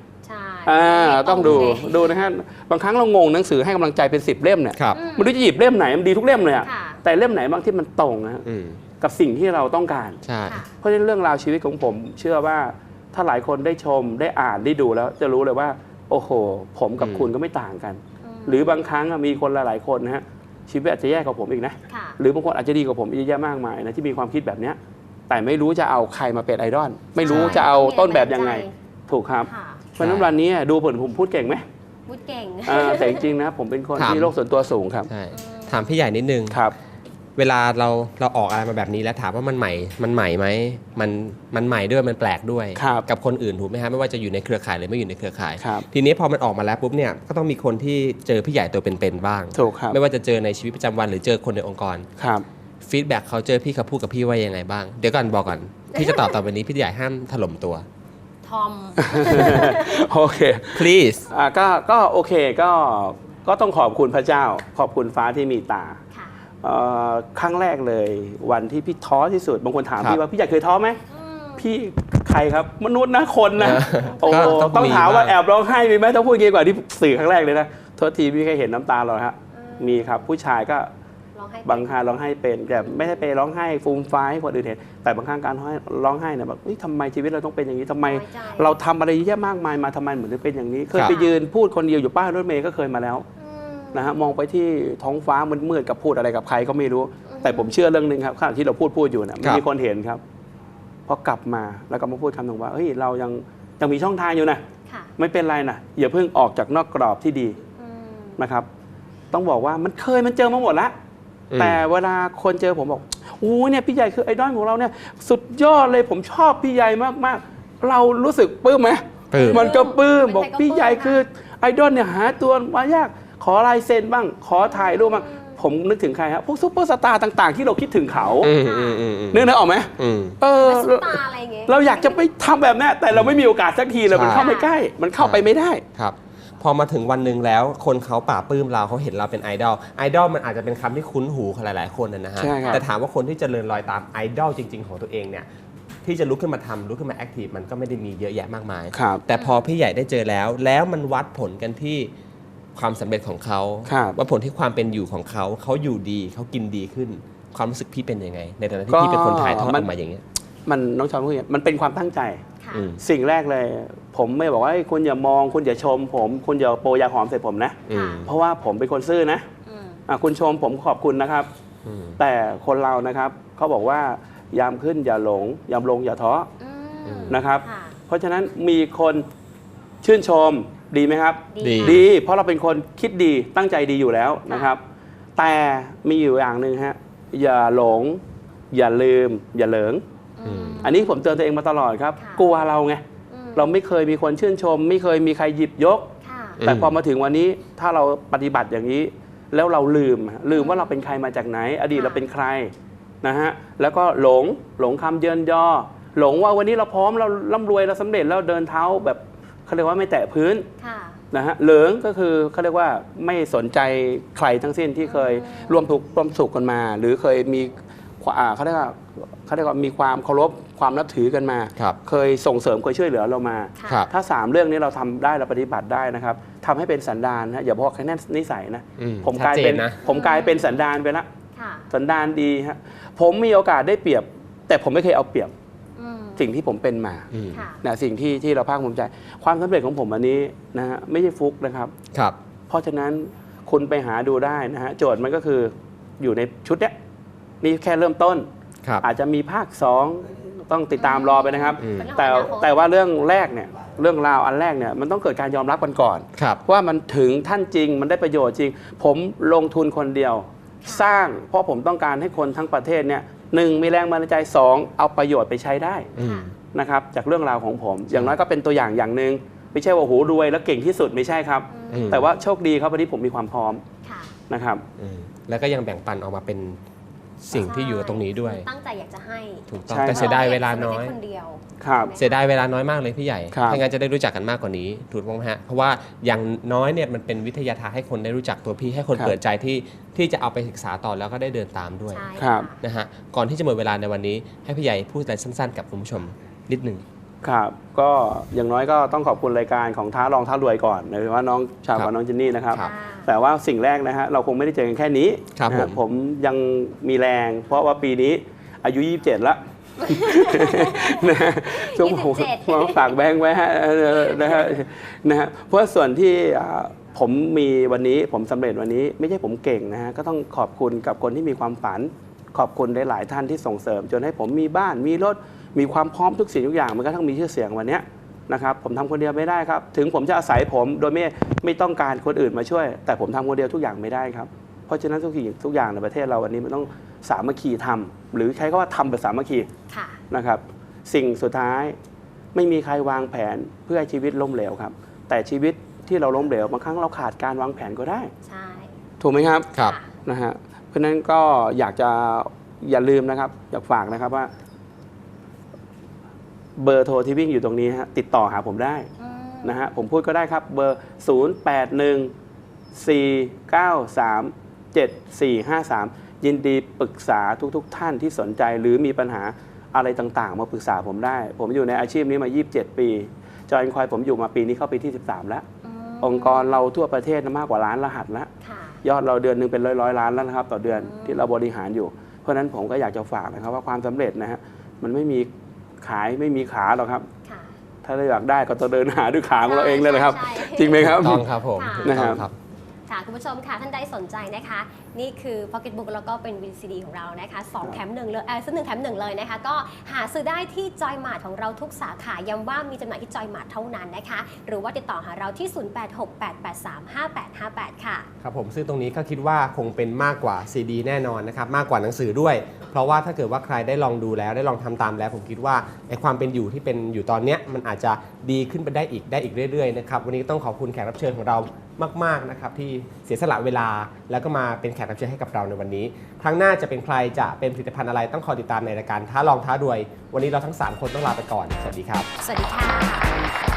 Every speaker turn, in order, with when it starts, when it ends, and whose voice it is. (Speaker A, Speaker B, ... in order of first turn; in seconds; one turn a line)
Speaker A: 0.2-2.2
Speaker B: 0.6-8.4
Speaker C: 1.4-1.7
Speaker C: 4.7-5.0
Speaker A: 4.9-5.3
Speaker A: 6.6-7.0
Speaker C: 8.4-8.8
Speaker B: 9.0-10.2
Speaker C: 10.2-10.6
Speaker A: 10.4-10.7
Speaker B: 10.8-24.8
Speaker C: 17.0-17.3
Speaker A: 18.2-18.8
Speaker A: 21.9-22.2
Speaker B: 25.3-31.6
Speaker A: 27.2-28.7
Speaker C: 27.2-27.6
Speaker A: 29.5-29.9
Speaker C: 30.0-30.3
Speaker A: 32.1-33.3
Speaker B: 32.6-35.1
Speaker C: 34.0-34.3
Speaker C: 35.1-36.6
Speaker A: 35.3-36.0
Speaker C: 37.4-52.1
Speaker B: 42.8-43.0
Speaker B: 45.6-45.9
Speaker B: 49.5-50.0
Speaker B: 52.2-52.4
Speaker C: 52.8-57.9
Speaker A: 55.9-56.3
Speaker A: 58.4-60.0
Speaker B: 59.0-66.0
Speaker C: 60.7-61.2
Speaker A: 66.1-66.4
Speaker B: 66.6-71.0
Speaker A: 71.1-71.7
Speaker B: 71.6-80.9
Speaker C: 73.6-75.3
Speaker A: 73.7-75.0
Speaker A: 79.5-80.3
Speaker A: 81.3-82.0
Speaker B: 81.6-93.2
Speaker A: 82.8-83.2
Speaker A: 88.0-88.8
Speaker A: 91.0-91.4
Speaker A: 93.4-94.2
Speaker B: 93.9-100.2
Speaker A: 97.2-97.8
Speaker B: 101.1-104.6
Speaker A: 104.9-105.1
Speaker B: 105.2-107.6
Speaker A: 107.8-108.4
Speaker B: 108.4-108.7
Speaker B: 109.3-110.9
Speaker C: 111.5-111.8
Speaker B: 111.6-128.5
Speaker C: 119.3-119.8
Speaker A: 119.3-121.2
Speaker A: 124.6-125.6
Speaker C: 128.4-130.4
Speaker A: 128.6-129.0
Speaker B: 129.3-135.8
Speaker A: 130.5-132.3
Speaker C: 133.1-133.4
Speaker C: 134.1-134.5
Speaker A: 134.3-134.7
Speaker C: 135.2-145.5
Speaker B: 142.4-142.8
Speaker A: 142.6-142.8
Speaker C: 146.0-152.1
Speaker B: 148.9-149.2
Speaker A: 149.3-149.7
Speaker C: 152.7-160.2
Speaker B: 153.8-154.2
Speaker B: 158.9-159.9
Speaker B: 160.7-162.4
Speaker A: 162.6-162.9
Speaker C: 162.7-163.0
Speaker B: 163.0-169.4
Speaker C: 167.9-168.3
Speaker A: 167.9-168.2
Speaker A: 169.7-170.0
Speaker B: 170.1-171.5
Speaker C: 171.8-172.2
Speaker B: 172.2-176.5
Speaker A: 176.6-178.0
Speaker C: 177.0-177.4
Speaker B: 177.3-179.2
Speaker B: 180.0-184.8
Speaker A: 181.5-182.1
Speaker C: 181.6-182.1
Speaker B: 185.4-190.0
Speaker A: 190.4-191.2
Speaker C: 190.4-190.8
Speaker B: 190.8-193.0
Speaker A: 192.2-192.5
Speaker A: 193.3-193.7
Speaker B: 193.5-196.1
Speaker A: 196.2-196.6
Speaker C: 196.6-197.0
Speaker B: 196.6-202.7
Speaker A: 200.5-201.0
Speaker A: 201.9-202.3
Speaker B: 203.2-210.7
Speaker A: 210.8-211.2
Speaker B: 211.3-231.2
Speaker A: 215.1-215.9
Speaker A: 223.8-224.1
Speaker C: 223.8-224.1
Speaker C: 229.0-230.0
Speaker A: 230.0-230.8
Speaker A: 231.5-231.9
Speaker B: 231.9-235.5
Speaker A: 236.0-236.5
Speaker B: 236.4-237.3
Speaker C: 237.3-237.7
Speaker A: 237.5-237.8
Speaker B: 237.8-241.9
Speaker B: 242.7-246.9
Speaker B: 247.6-248.4
Speaker B: 249.0-266.1
Speaker A: 251.0-252.8
Speaker C: 251.8-252.1
Speaker C: 256.4-256.6
Speaker A: 260.8-261.1
Speaker C: 266.2-266.5
Speaker A: 266.2-266.5
Speaker B: 266.7-273.8
Speaker A: 271.7-272.3
Speaker C: 271.9-272.3
Speaker A: 274.0-274.3
Speaker B: 274.5-274.8
Speaker C: 275.0-276.8
Speaker C: 277.4-278.6
Speaker A: 277.5-282.4
Speaker C: 279.7-281.1
Speaker B: 279.9-280.4
Speaker B: 281.8-282.1
Speaker C: 282.1-297.0
Speaker B: 283.5-283.8
Speaker A: 292.1-292.8
Speaker B: 292.4-292.7
Speaker B: 297.4-339.7
Speaker A: 302.8-303.3
Speaker C: 305.6-306.0
Speaker A: 310.0-313.1
Speaker A: 314.3-314.6
Speaker A: 339.9-340.2
Speaker B: 340.3-341.9
Speaker B: 342.5-348.3
Speaker A: 348.4-348.9
Speaker B: 349.2-349.7
Speaker A: 349.8-350.1
Speaker B: 350.2-354.5
Speaker B: 356.8-359.1
Speaker A: 359.2-359.8
Speaker B: 359.6-362.3
Speaker B: 362.9-375.6
Speaker A: 375.8-376.8
Speaker B: 376.2-378.5
Speaker A: 378.6-379.0
Speaker B: 379.0-385.5
Speaker A: 381.0-381.5
Speaker B: 386.0-387.3
Speaker A: 387.4-387.7
Speaker B: 388.0-391.4
Speaker A: 389.6-391.1
Speaker C: 391.0-392.5
Speaker A: 391.7-392.2
Speaker B: 392.0-392.4
Speaker A: 393.1-408.3
Speaker C: 408.4-432.3
Speaker A: 432.4-433.5